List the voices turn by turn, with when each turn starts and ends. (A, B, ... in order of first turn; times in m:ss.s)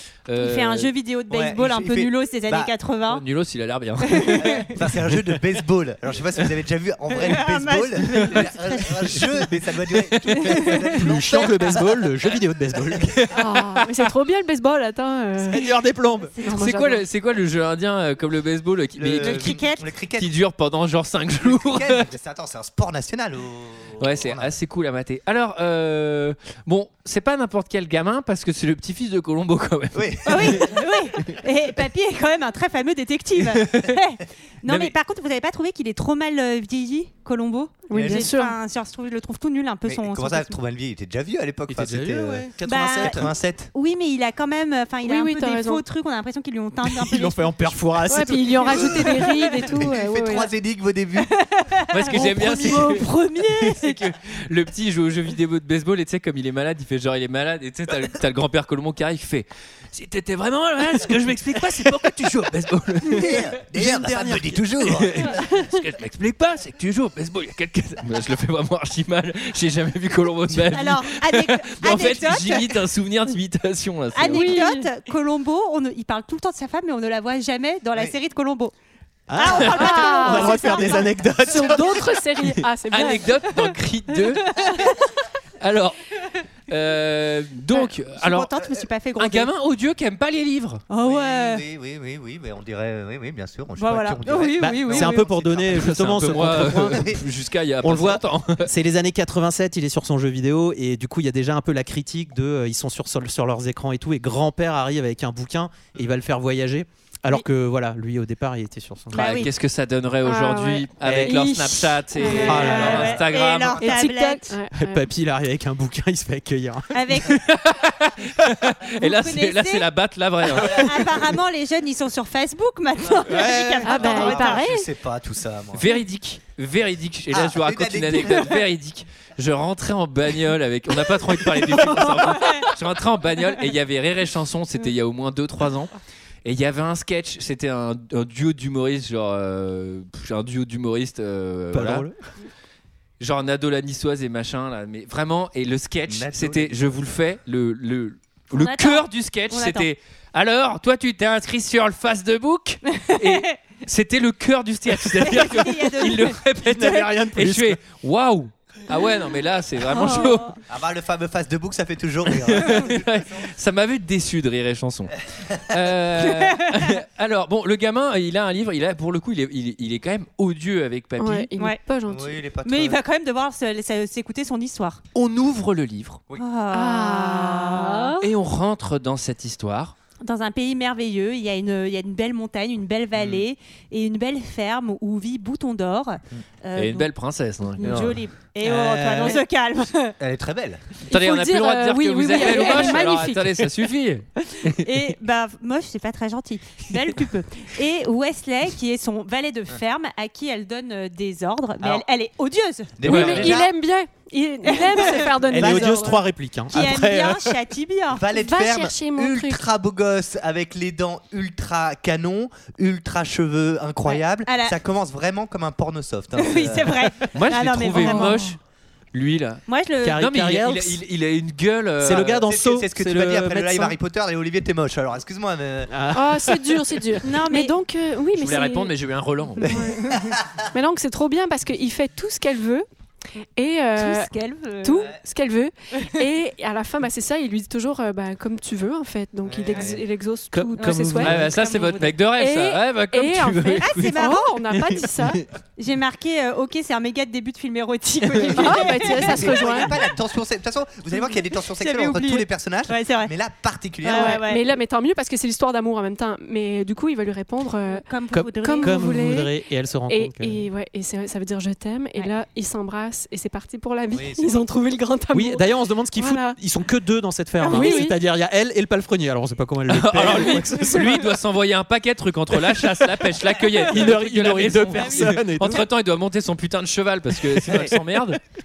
0:00.3-0:00.9 A
0:00.4-0:03.2 B
0:01.3-0:02.7 C
0:03.1-0:04.7 A
0:04.1-0:04.7 B
0:04.4-0:12.1 C
0:07.1-0:09.4 B
0:10.4-0:10.8 B
0:10.9-0:13.1 D
0:13.2-0:13.5 A
0:13.3-0:15.7 E
0:15.4-0:16.4 D
0:16.4-0:17.0 E
0:16.5-0:19.6 A
0:19.0-0:20.3 C
0:19.2-0:19.8 B
0:20.2-0:22.0 A
0:21.4-0:24.5 C
0:24.0-0:30.8 A
0:29.9-0:30.7 C
0:30.3-0:40.6 B
0:33.6-0:33.9 A
0:34.6-0:34.9 A
0:37.9-0:38.5 E
0:37.9-0:38.3 C
0:39.9-0:43.7 C
0:41.7-0:43.3 D
0:42.6-0:47.7 B
0:45.0-0:45.8 E
0:46.8-0:49.2 D
0:48.1-0:50.5 E
0:48.7-0:49.1 C
0:49.7-0:51.3 C
0:51.2-0:51.9 B
0:51.9-1:03.5 A
0:52.1-0:52.9 D
0:52.6-0:53.4 E
0:52.6-0:53.9 B
1:03.1-1:04.6 D
1:03.1-1:05.4 C
1:04.8-1:14.5 A
1:10.7-1:12.8 B
1:14.1-1:18.7 B
1:14.2-1:14.9 E
1:19.3-1:22.1 D
1:19.4-1:21.1 B
1:19.7-1:23.5 E
1:22.9-1:24.5 A
1:24.3-1:25.1 B
1:25.6-1:26.0 A
1:26.7-1:28.5 A
1:27.7-1:29.5 B
1:29.2-1:30.8 A
1:30.9-1:31.6 B
1:31.0-1:37.2 C
1:33.8-1:35.3 B
1:34.6-1:37.2 D
1:35.7-1:38.7 A
1:37.8-1:49.2 D
1:49.1-1:49.5 B
1:49.1-1:53.9 A
1:50.2-1:53.1 E
1:51.0-1:51.4 D
1:52.2-1:54.5 B
1:52.4-1:53.2 D
1:53.8-1:55.0 E
1:54.7-1:57.0 D
1:56.9-1:57.4 B
1:57.2-2:01.0 A
1:59.0-1:59.9 B
2:00.5-2:04.8 B
2:03.3-2:05.9 C
2:03.3-2:03.8 D
2:03.8-2:04.8 E
2:05.7-2:15.9 A
2:07.3-2:08.6 C
2:12.3-2:12.7 B
2:16.4-2:22.1 A
2:21.7-2:22.2 D
2:23.2-2:40.6 A
2:26.1-2:26.9 C
2:28.5-2:29.9 B
2:33.1-2:33.6 B
2:35.2-2:36.4 B
2:36.6-2:37.8 D
2:39.9-2:40.5 B
2:40.7-2:43.5 C
2:42.3-2:45.1 A
2:45.6-2:51.5 A
2:51.2-2:52.4 E
2:52.1-2:53.0 C
2:52.6-2:55.0 B
2:55.1-2:56.2 A
2:56.4-2:58.2 B
2:56.7-2:58.2 E
2:58.2-2:59.9 A
3:00.2-3:07.1 B
3:03.1-3:03.4 C
3:06.8-3:08.0 A
3:07.8-3:10.2 B
3:07.8-3:08.1 C
3:08.6-3:09.4 D
3:10.2-3:10.9 C
3:11.1-3:13.7 E
3:11.1-3:14.9 A
3:12.4-3:12.8 B
3:14.8-3:23.0 B
3:23.0-3:23.7 C
3:23.0-3:26.2 E
3:23.0-3:23.5 A
3:24.6-3:25.4 B
3:25.5-3:27.6 D
3:25.5-3:26.0 C
3:26.7-3:28.2 B
3:28.1-3:37.2 C
3:28.3-3:29.6 E
3:34.0-3:34.8 B
3:36.4-3:38.4 B
3:37.3-3:38.6 A
3:38.0-3:38.3 E
3:39.1-3:39.6 A
3:39.7-3:40.2 B
3:40.0-3:41.0 D
3:40.1-3:42.4 A
3:42.0-3:44.0 D
3:42.1-3:46.0 C
3:45.9-3:47.2 D
3:46.1-3:48.9 E
3:47.2-3:47.7 B
3:48.4-3:49.7 A
3:49.6-3:50.2 E
3:50.1-3:50.4 C
3:50.7-3:52.9 E
3:53.6-3:54.3 E
3:54.0-3:55.1 B
3:54.8-4:01.5 E
3:59.5-4:00.0 C
4:00.5-4:01.5 D
4:00.8-4:02.2 B
4:01.2-4:04.2 A
4:02.3-4:05.4 E
4:03.8-4:04.9 B
4:05.8-4:09.9 B
4:08.6-4:09.9 E
4:08.6-4:14.4 C
4:11.1-4:13.3 B
4:14.0-4:14.6 B
4:14.0-4:18.0 E
4:17.8-4:19.0 B
4:18.3-4:20.6 D
4:18.6-4:19.5 E
4:20.1-4:26.6 E
4:24.1-4:24.7 C
4:25.3-4:31.3 D
4:27.6-4:28.2 E
4:27.6-4:28.1 B
4:29.9-4:38.4 A
4:33.7-4:35.9 D
4:35.0-4:35.3 B
4:37.4-4:37.9 D